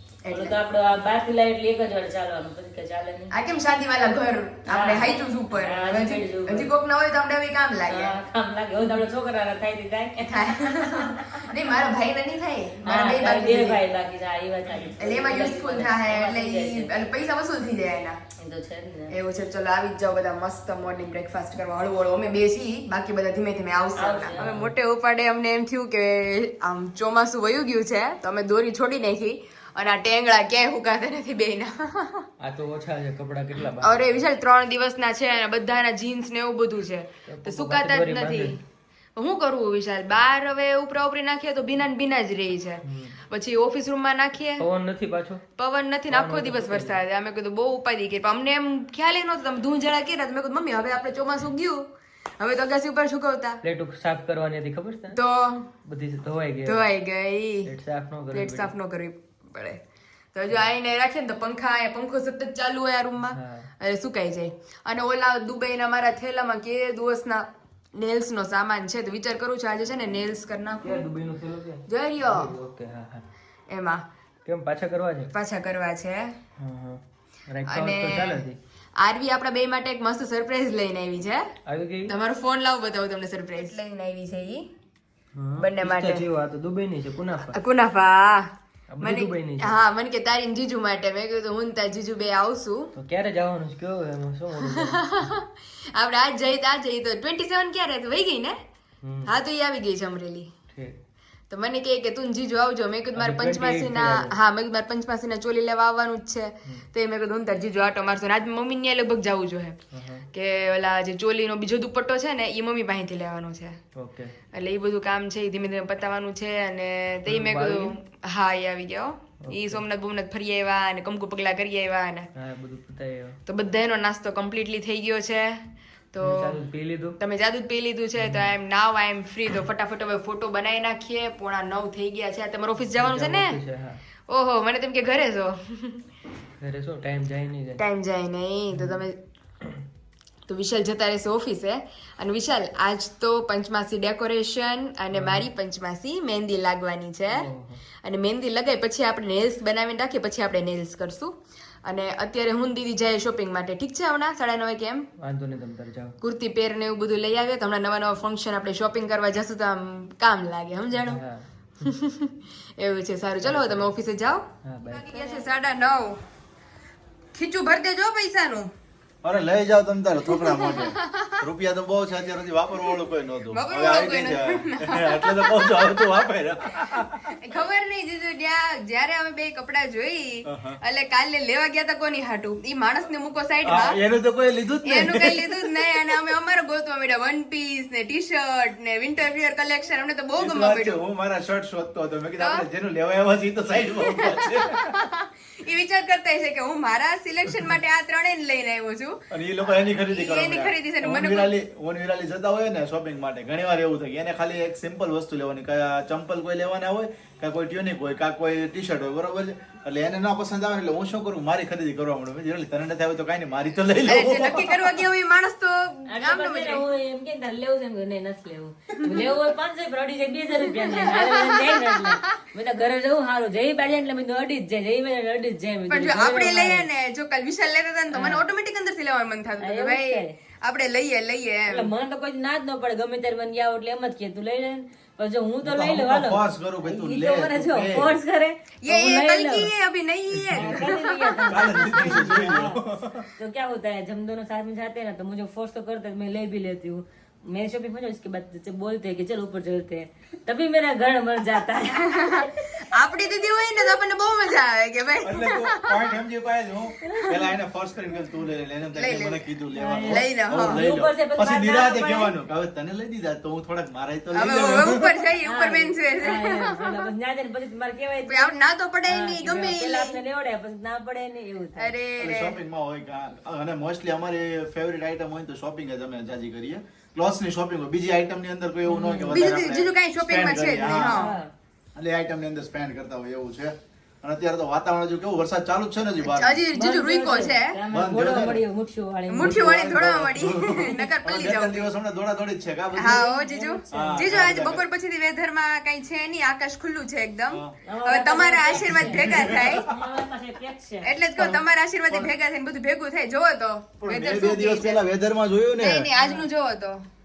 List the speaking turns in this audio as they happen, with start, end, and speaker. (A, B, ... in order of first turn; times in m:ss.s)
0:00.2-0:00.5 A
0:00.3-0:03.3 B
0:03.3-0:08.1 A
0:04.7-0:06.7 B
0:07.9-0:11.4 B
0:10.2-0:13.8 A
0:12.8-0:16.9 B
0:15.0-0:18.2 A
0:18.4-0:19.1 B
0:19.1-0:32.2 A
0:24.0-0:24.5 B
0:24.4-0:24.7 C
0:32.4-0:34.1 C
0:33.8-0:38.6 A
0:37.3-0:38.6 C
0:39.2-0:44.6 A
0:42.8-0:43.2 C
0:44.6-0:45.4 C
0:45.6-0:51.8 A
0:46.1-0:47.0 C
0:52.4-0:53.6 A
0:53.6-0:55.2 C
0:55.1-0:55.7 A
0:55.8-0:56.9 C
0:56.6-0:57.7 A
0:57.6-0:58.7 C
0:58.3-0:59.8 A
1:00.3-1:11.1 A
1:03.2-1:03.7 C
1:10.8-1:13.2 C
1:11.9-1:12.5 A
1:13.7-1:14.0 A
1:14.4-1:15.3 C
1:15.3-1:16.4 A
1:16.6-1:18.6 C
1:17.7-1:18.4 A
1:19.0-1:21.5 A
1:21.7-1:22.1 C
1:22.1-1:24.7 A
1:25.3-1:27.6 C
1:25.6-1:26.2 A
1:27.5-1:32.9 A
1:28.9-1:29.8 C
1:33.0-1:35.3 C
1:34.6-1:38.6 A
1:39.0-1:39.3 C
1:39.2-1:40.5 A
1:41.5-1:49.8 A
1:43.2-1:44.3 C
1:49.9-1:50.2 C
1:50.3-1:53.8 A
1:54.0-1:54.3 C
1:54.5-2:02.3 A
1:57.2-1:57.9 C
1:59.4-1:59.8 C
2:02.3-2:03.4 C
2:03.5-2:06.6 A
2:06.2-2:07.2 C
2:07.2-2:13.6 A
2:08.2-2:08.5 C
2:12.8-2:14.0 C
2:14.3-2:16.0 A
2:16.6-2:17.8 C
2:17.8-2:19.2 A
2:18.7-2:19.0 C
2:20.5-2:27.5 A
2:25.1-2:25.5 C
2:27.3-2:27.8 C
2:28.0-2:35.1 A
2:35.2-2:36.2 C
2:36.2-2:41.2 A
2:41.0-2:41.4 C
2:41.8-2:46.2 A
2:43.4-2:43.9 C
2:44.6-2:45.2 C
2:47.3-2:48.7 A
2:49.2-2:57.3 D
2:50.3-2:51.4 A
2:53.5-2:56.1 A
2:57.4-3:04.0 A
3:00.4-3:00.8 D
3:03.6-3:05.8 D
3:04.9-3:11.0 A
3:10.4-3:14.9 D
3:12.4-3:12.6 A
3:13.8-3:21.5 A
3:19.3-3:35.0 D
3:34.0-3:36.8 A
3:36.1-3:46.8 B
3:38.9-3:39.3 A
3:40.6-3:42.3 A
3:45.9-3:51.9 A
3:48.1-3:48.4 B
3:49.6-3:50.4 B
3:51.7-3:59.7 B
3:55.6-3:58.2 D
3:58.8-4:02.0 A
4:00.5-4:02.8 B
4:01.5-4:03.3 D
4:03.4-4:12.5 B
4:11.9-4:16.1 A
4:15.2-4:25.0 D
4:18.9-4:19.4 A
4:19.7-4:22.3 B
4:20.0-4:20.8 A
4:24.3-4:27.0 A
4:25.4-4:28.5 B
4:28.3-4:30.2 A
4:29.1-4:31.9 B
4:31.8-4:32.6 A
4:32.2-4:41.2 D
4:38.9-4:39.4 B
4:39.3-4:41.4 A
4:40.8-4:41.5 B
4:41.9-4:46.6 D
4:46.2-4:47.8 A
4:46.7-4:49.7 B
4:47.9-4:48.6 D
4:49.3-4:51.9 A
4:49.4-4:53.3 D
4:53.0-4:59.9 A
4:53.0-4:54.4 B
4:53.9-4:54.8 D
4:57.5-4:57.7 D
4:57.8-5:01.5 B
4:58.9-4:59.8 D
5:01.0-5:05.0 A
5:04.0-5:06.1 D
5:05.8-5:07.0 A
5:06.2-5:06.4 B